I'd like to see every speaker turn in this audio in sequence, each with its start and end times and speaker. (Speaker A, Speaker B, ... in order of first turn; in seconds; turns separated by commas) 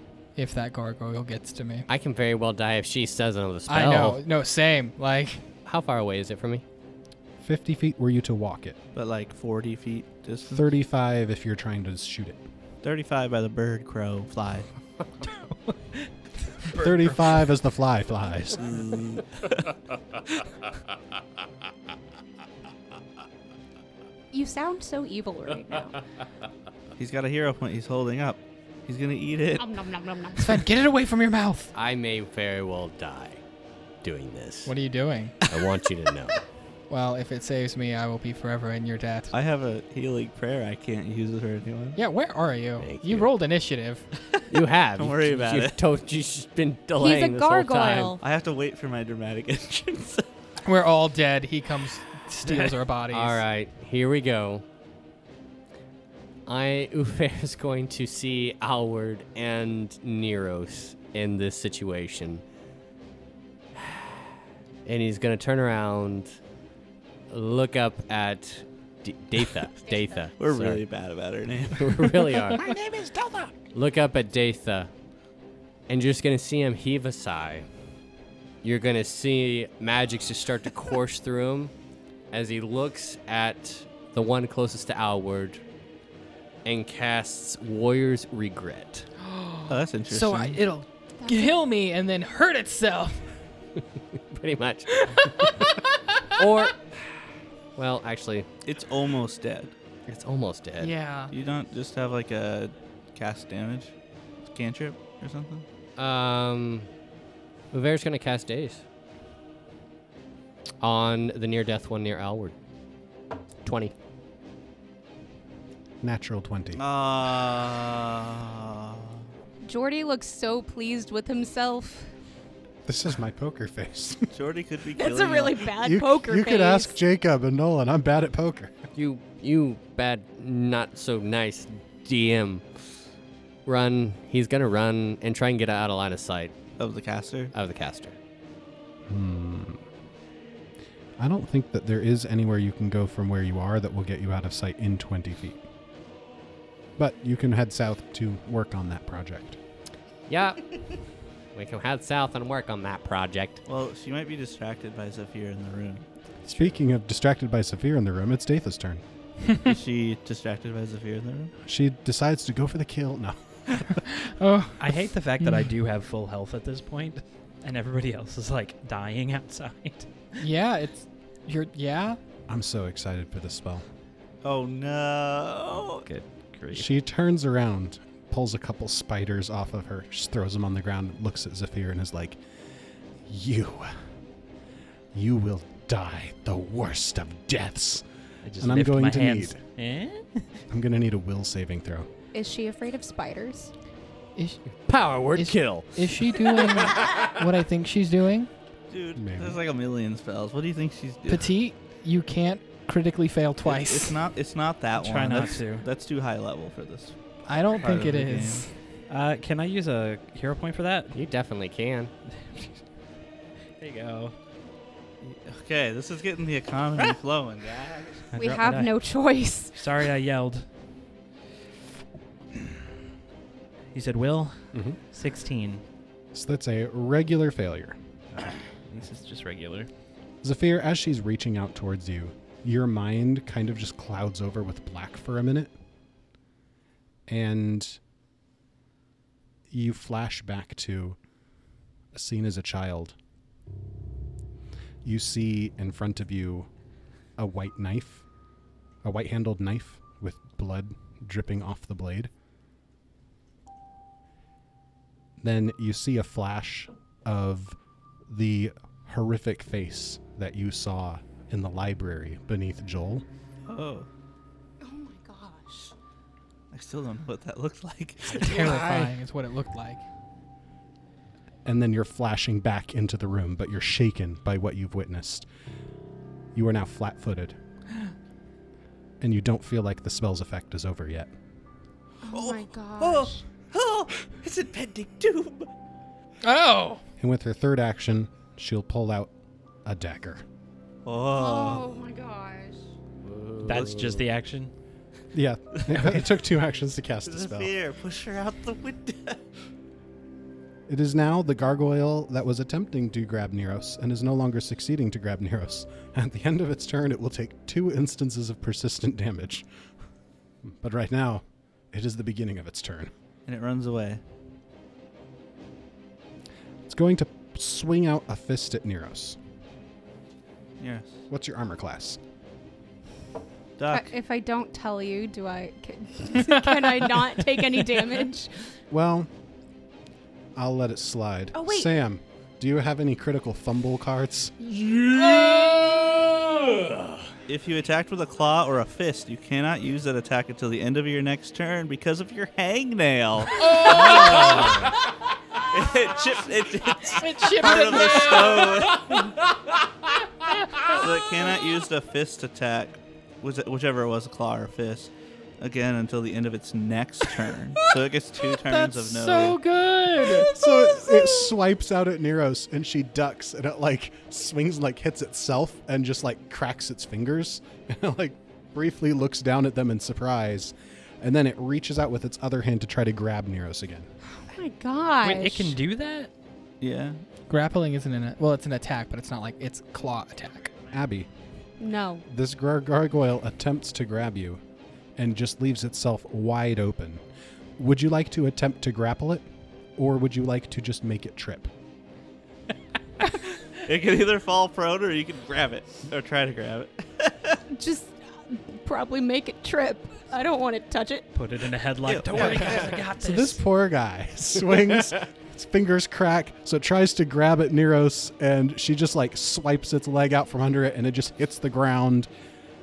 Speaker A: 0.3-1.9, Speaker B: 1.9-4.2, Speaker A: 3.7-5.4, Speaker B: 5.7-6.7, Speaker C: 7.4-8.8, Speaker D: 8.9-10.6, Speaker C: 10.5-12.4, Speaker D: 12.8-14.7, Speaker E: 15.2-16.1, Speaker C: 16.8-18.8, Speaker D: 18.6-19.2, Speaker F: 24.3-26.0, Speaker D: 27.0-29.8, Speaker F: 29.6-30.7, Speaker A: 30.4-31.7, Speaker B: 31.8-33.4, Speaker B: 34.0-34.7, Speaker A: 34.6-35.6, Speaker B: 35.5-36.4, Speaker A: 36.9-39.3, Speaker D: 39.3-42.0, Speaker A: 42.0-44.0, Speaker B: 42.8-43.3, Speaker B: 44.5-48.2, Speaker D: 45.0-45.8, Speaker F: 47.0-48.2, Speaker D: 48.2-50.3, Speaker A: 50.6-53.4, Speaker B: 53.1-54.6, Speaker B: 56.5-62.4, Speaker B: 64.8-66.4, Speaker B: 67.3-70.8, Speaker D: 70.4-72.6, Speaker B: 71.8-74.9, Speaker B: 75.9-77.7, Speaker B: 78.6-81.7, Speaker B: 82.3-85.6, Speaker B: 86.7-89.1, Speaker A: 89.2-93.3, Speaker D: 89.7-90.6, Speaker F: 91.2-91.5, Speaker B: 94.3-95.3, Speaker A: 95.0-96.2, Speaker B: 96.4-97.0, Speaker B: 97.8-98.5, Speaker D: 98.7-99.7, Speaker B: 100.1-100.9, Speaker A: 100.8-101.3, Speaker D: 101.3-103.9, Speaker D: 104.4-105.7, Speaker B: 106.0-106.9, Speaker B: 107.7-108.8, Speaker B: 110.8-112.5, Speaker B: 113.6-113.9, Speaker C: 116.0-116.8, Speaker D: 116.8-119.2, Speaker F: 119.6-122.1, Speaker C: 122.9-124.3, Speaker D: 124.3-125.7, Speaker F: 125.0-127.0, Speaker C: 125.8-128.8, Speaker B: 128.9-132.7, Speaker B: 133.7-136.6, Speaker D: 136.8-137.5, Speaker B: 137.5-138.2, Speaker C: 139.1-139.9, Speaker C: 141.2-145.6, Speaker C: 147.0-149.6, Speaker B: 150.3-150.7, Speaker B: 151.5-153.6, Speaker D: 153.7-156.1, Speaker B: 156.5-156.7, Speaker C: 156.5-159.0, Speaker D: 159.7-161.5, Speaker C: 161.7-164.0, Speaker A: 164.1-165.7, Speaker E: 164.8-170.1, Speaker A: 170.4-172.2, Speaker C: 172.5-173.9, Speaker D: 174.4-176.1, Speaker E: 176.1-176.9, Speaker C: 176.7-182.4, Speaker C: 183.2-184.0, Speaker C: 185.1-188.1, Speaker E: 188.4-190.5, Speaker C: 188.6-189.6, Speaker C: 190.7-192.1, Speaker F: 192.3-193.7, Speaker A: 194.4-194.6, Speaker B: 194.8-197.2, Speaker A: 195.3-198.5, Speaker D: 198.9-201.6, Speaker C: 199.2-199.6, Speaker A: 201.3-204.2, Speaker D: 203.7-208.7, Speaker E: 205.0-205.9, Speaker A: 207.5-208.7, Speaker E: 209.1-211.2, Speaker B: 211.1-212.1, Speaker E: 212.4-212.8, Speaker E: 213.8-214.3, Speaker D: 215.2-218.3, Speaker E: 218.3-218.9, Speaker F: 218.3-219.8, Speaker E: 219.8-220.7, Speaker E: 223.9-225.8, Speaker C: 224.7-225.0, Speaker C: 226.3-228.0, Speaker E: 228.3-229.9, Speaker C: 230.4-235.7, Speaker C: 237.3-238.0, Speaker C: 239.7-241.2, Speaker C: 242.1-243.2, Speaker C: 245.0-246.7, Speaker C: 247.4-248.2, Speaker C: 249.0-252.3, Speaker C: 255.4-263.2, Speaker D: 263.7-264.1, Speaker F: 264.8-265.9, Speaker D: 266.7-269.1, Speaker A: 268.3-270.0, Speaker C: 271.6-275.5, Speaker C: 276.6-277.6, Speaker C: 279.2-281.3, Speaker F: 282.2-283.4, Speaker D: 282.3-285.7, Speaker A: 286.4-287.0, Speaker C: 287.2-289.3, Speaker C: 289.9-290.4, Speaker D: 291.1-291.9, Speaker F: 291.3-292.8, Speaker B: 293.2-294.2, Speaker E: 293.6-294.7, Speaker C: 295.3-297.7, Speaker D: 297.2-299.4, Speaker C: 300.9-309.7, Speaker C: 310.6-313.1, Speaker D: 313.5-314.2, Speaker C: 316.9-319.4, Speaker D: 320.8-321.2, Speaker C: 321.3-322.2, Speaker D: 323.8-324.1, Speaker F: 323.9-328.5, Speaker C: 328.9-329.3, Speaker C: 330.6-334.6, Speaker F: 331.5-331.9, Speaker B: 334.6-337.2, Speaker D: 337.5-345.0, Speaker A: 343.6-344.7, Speaker E: 344.5-344.9, Speaker D: 345.7-349.4, Speaker A: 347.1-348.8, Speaker D: 350.8-359.6, Speaker A: 358.5-360.5, Speaker C: 360.5-374.1, Speaker F: 374.5-375.8, Speaker E: 375.2-376.3, Speaker D: 376.8-377.2, Speaker A: 377.5-380.7, Speaker C: 380.9-381.3, Speaker F: 381.8-382.2, Speaker C: 382.3-384.6, Speaker C: 385.2-387.2, Speaker C: 387.8-391.7, Speaker D: 393.7-397.6, Speaker F: 397.7-401.3, Speaker E: 401.4-403.6, Speaker D: 402.1-402.8, Speaker C: 403.2-412.3